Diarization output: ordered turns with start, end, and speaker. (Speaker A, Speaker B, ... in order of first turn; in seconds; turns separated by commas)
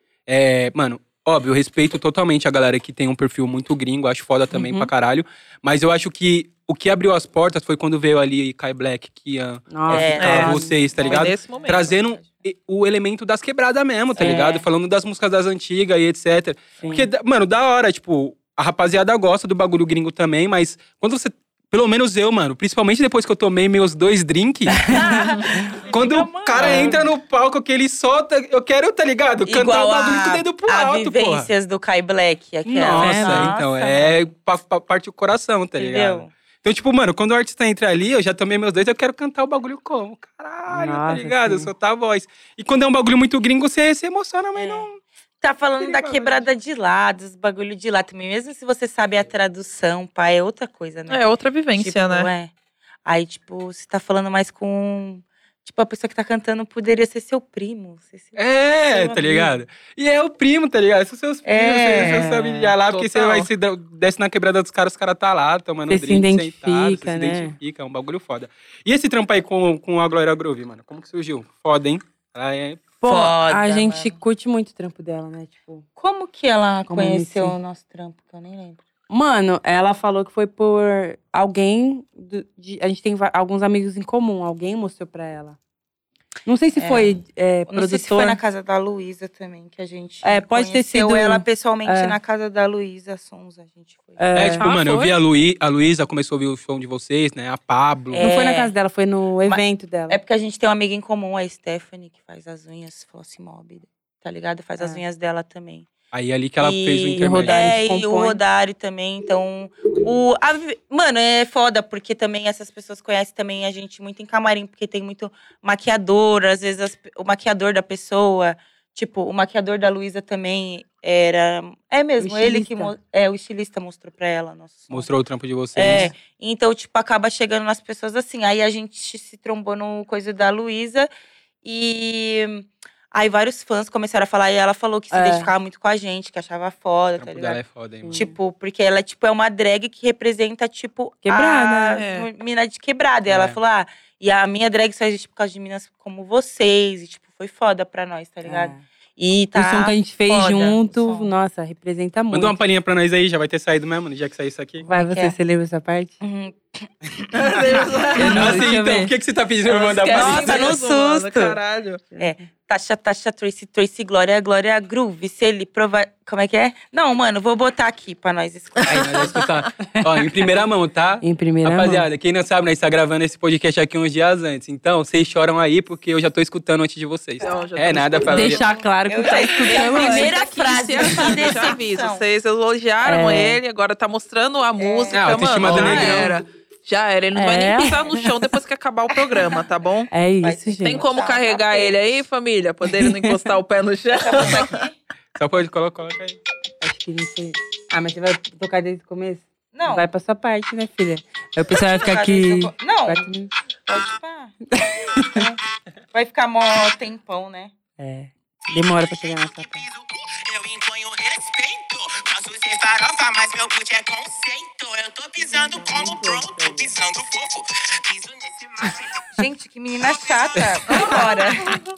Speaker A: 0.3-25.0, Speaker B: 4.5-4.9, Speaker B: 9.7-10.8, Speaker C: 9.9-12.3, Speaker D: 10.2-11.9, Speaker B: 14.2-14.6, Speaker C: 14.2-14.6, Speaker B: 16.8-17.1, Speaker B: 24.7-25.8, Speaker C: 24.9-27.1, Speaker A: 25.8-31.5, Speaker B: 26.6-27.0, Speaker C: 29.5-34.2, Speaker A: 32.6-45.0, Speaker B: 32.9-33.5, Speaker C: 35.8-36.3, Speaker B: 40.7-41.7, Speaker C: 44.5-44.9, Speaker C: 45.4-52.5, Speaker A: 45.8-46.4, Speaker D: 51.1-52.3, Speaker C: 53.1-59.5, Speaker A: 58.4-72.8, Speaker C: 61.4-62.5, Speaker D: 62.9-63.5, Speaker B: 65.9-67.6, Speaker B: 73.0-75.8, Speaker C: 73.0-74.2, Speaker C: 76.0-78.8, Speaker B: 76.9-77.6, Speaker B: 79.1-85.6, Speaker B: 86.5-88.4, Speaker C: 86.8-87.2, Speaker C: 87.7-94.4, Speaker B: 90.2-92.2, Speaker B: 94.2-94.7, Speaker A: 94.3-98.3, Speaker D: 94.6-95.1, Speaker C: 98.1-98.7, Speaker B: 98.2-100.2, Speaker C: 99.4-105.9, Speaker A: 106.1-107.6, Speaker C: 106.6-125.1, Speaker B: 107.1-108.4, Speaker B: 122.2-122.9, Speaker A: 124.9-126.1, Speaker C: 125.8-131.1, Speaker B: 125.8-126.1, Speaker C: 131.6-151.3, Speaker B: 135.1-135.5, Speaker A: 137.2-138.2, Speaker B: 138.0-138.4, Speaker B: 141.2-142.1, Speaker D: 142.0-142.3, Speaker A: 143.3-143.6, Speaker B: 148.4-148.8, Speaker B: 149.6-152.6, Speaker A: 152.3-154.9, Speaker B: 154.8-156.2, Speaker C: 154.8-155.3, Speaker C: 156.2-158.5, Speaker D: 157.3-158.7, Speaker B: 158.1-159.1, Speaker A: 158.2-160.8, Speaker D: 159.6-162.0, Speaker C: 160.1-161.6, Speaker C: 162.2-169.4, Speaker D: 168.8-169.5, Speaker A: 168.8-178.6, Speaker B: 171.2-172.1, Speaker D: 177.4-178.7, Speaker B: 178.3-180.4, Speaker C: 178.5-182.2, Speaker D: 179.2-190.1, Speaker B: 181.0-181.5, Speaker B: 183.0-183.6, Speaker C: 184.8-186.3, Speaker A: 185.1-186.4, Speaker B: 185.7-186.3, Speaker B: 187.3-188.4, Speaker B: 190.1-191.1, Speaker C: 190.4-192.0, Speaker D: 190.8-194.8, Speaker B: 193.0-193.4, Speaker C: 194.2-194.9, Speaker A: 195.4-196.4, Speaker B: 196.8-203.5, Speaker C: 199.7-200.1, Speaker C: 201.7-203.3, Speaker C: 203.9-204.6, Speaker B: 204.7-205.5, Speaker C: 205.3-205.6, Speaker C: 206.1-207.7, Speaker B: 208.0-209.8, Speaker E: 208.7-219.4, Speaker B: 215.8-216.8, Speaker C: 219.4-221.8, Speaker E: 220.0-221.3